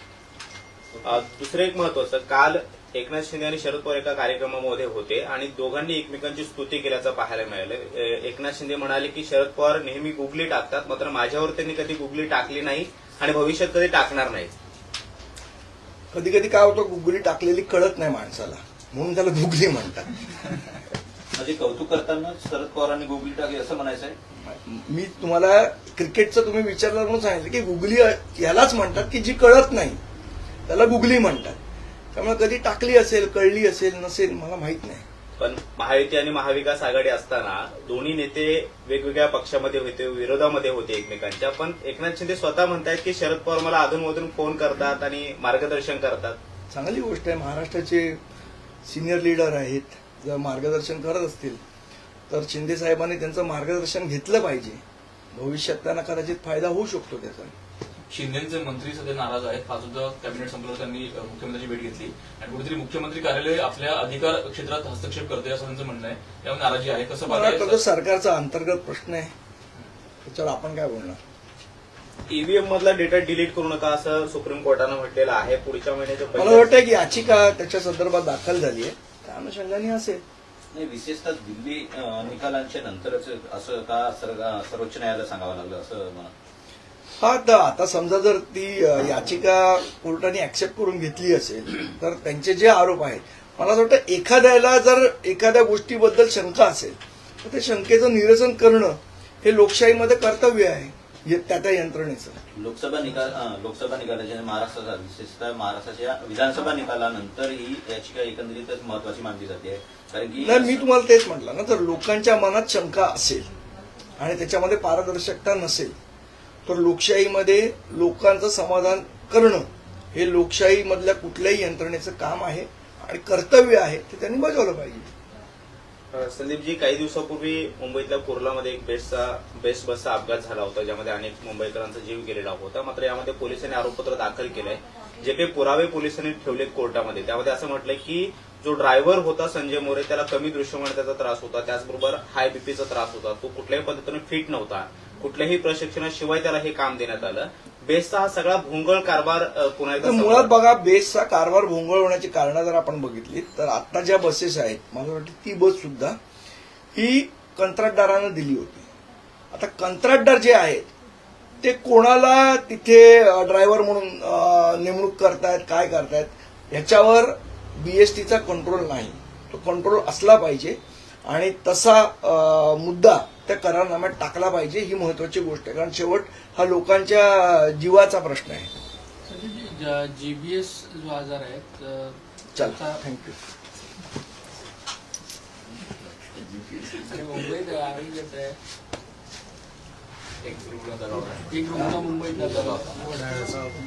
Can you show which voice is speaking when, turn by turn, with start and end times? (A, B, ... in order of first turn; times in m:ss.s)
0:01.0-0:14.5 A
0:16.1-0:20.1 B
0:21.3-0:24.2 C
0:24.4-0:30.0 B
0:30.7-0:31.6 B
0:32.1-0:35.0 B
0:35.4-0:46.4 A
0:46.7-0:48.2 B
0:48.8-0:51.6 B
0:52.3-0:54.8 B
0:55.3-0:57.5 B
0:58.1-1:07.8 D
1:07.2-1:09.3 B
1:10.2-1:11.2 B
1:12.3-1:16.7 A
1:16.3-1:20.2 B
1:20.7-1:26.3 C
1:27.2-1:42.4 B
1:42.5-1:50.8 C
1:50.4-1:53.5 B
1:54.2-1:56.0 B
1:56.6-2:05.1 B
2:06.1-2:30.5 A
2:30.0-2:36.2 B
2:36.9-2:38.9 B
2:39.5-2:40.9 B
2:41.6-2:58.7 B
2:59.2-3:03.0 E
3:02.6-3:03.4 B
3:06.3-3:07.5 B
3:07.0-3:08.6 E
3:10.4-3:11.7 D
3:11.5-3:13.6 E
3:11.7-3:12.0 B
3:12.3-3:13.1 D